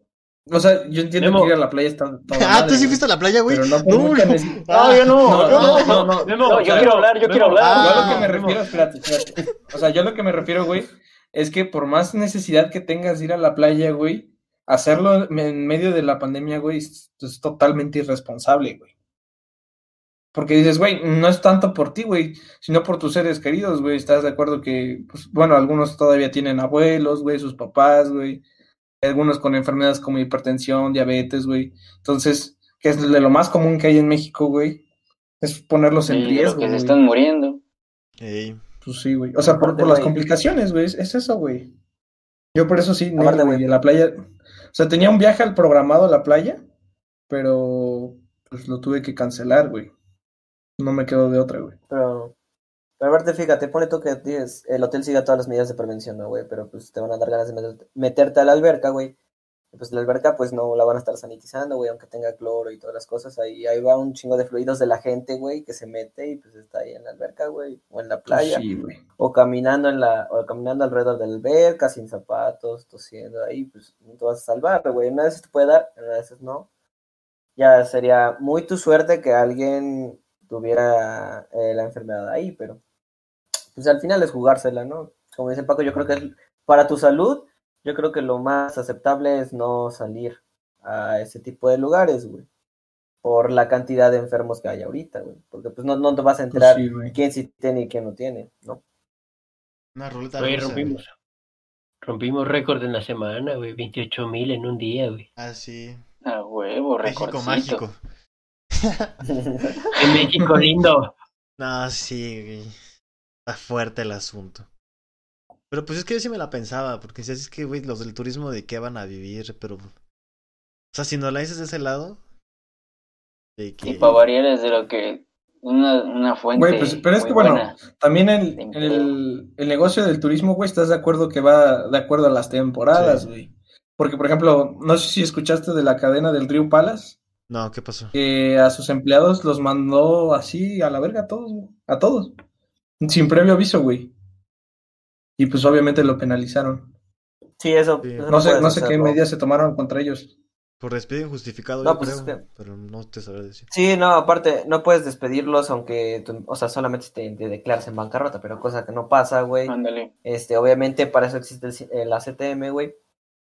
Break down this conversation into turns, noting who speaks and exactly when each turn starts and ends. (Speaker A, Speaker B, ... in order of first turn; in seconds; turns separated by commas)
Speaker A: 0.5-4.6, Speaker B: 1.2-1.5, Speaker C: 2.3-6.0, Speaker D: 4.7-8.2, Speaker A: 5.2-6.9, Speaker B: 5.7-8.6, Speaker C: 7.6-8.3, Speaker A: 7.8-18.9, Speaker A: 20.3-28.4, Speaker A: 29.0-34.8, Speaker A: 35.4-37.0, Speaker D: 36.0-37.6, Speaker C: 38.2-38.6, Speaker A: 38.8-41.7, Speaker E: 39.5-40.2, Speaker A: 42.5-44.1, Speaker E: 43.1-43.6, Speaker A: 44.7-46.6, Speaker A: 47.3-49.9, Speaker A: 50.8-51.8, Speaker E: 51.9-52.3, Speaker E: 53.0-59.1, Speaker E: 59.7-68.6, Speaker A: 68.3-69.0, Speaker E: 69.2-76.7, Speaker E: 77.6-82.8, Speaker E: 83.7-92.4, Speaker E: 93.2-98.8, Speaker A: 96.5-97.2, Speaker C: 99.9-101.0, Speaker B: 100.4-101.1, Speaker B: 102.0-105.2, Speaker C: 105.3-106.0, Speaker D: 106.2-107.8, Speaker C: 107.0-108.0, Speaker C: 108.8-109.2, Speaker E: 109.3-109.7, Speaker B: 110.0-111.1, Speaker C: 111.6-112.7, Speaker C: 113.5-114.7, Speaker C: 115.7-119.9, Speaker C: 120.9-122.2, Speaker C: 123.6-124.2, Speaker D: 123.8-127.8, Speaker A: 126.5-137.2, Speaker D: 128.6-129.1, Speaker C: 132.9-133.3, Speaker C: 137.5-138.1, Speaker A: 138.1-142.3, Speaker A: 143.0-144.1, Speaker A: 145.4-146.9, Speaker E: 147.6-149.2, Speaker C: 148.0-148.3, Speaker A: 148.3-150.3, Speaker C: 150.8-153.7, Speaker E: 151.8-152.4, Speaker E: 153.7-162.9, Speaker D: 159.7-160.1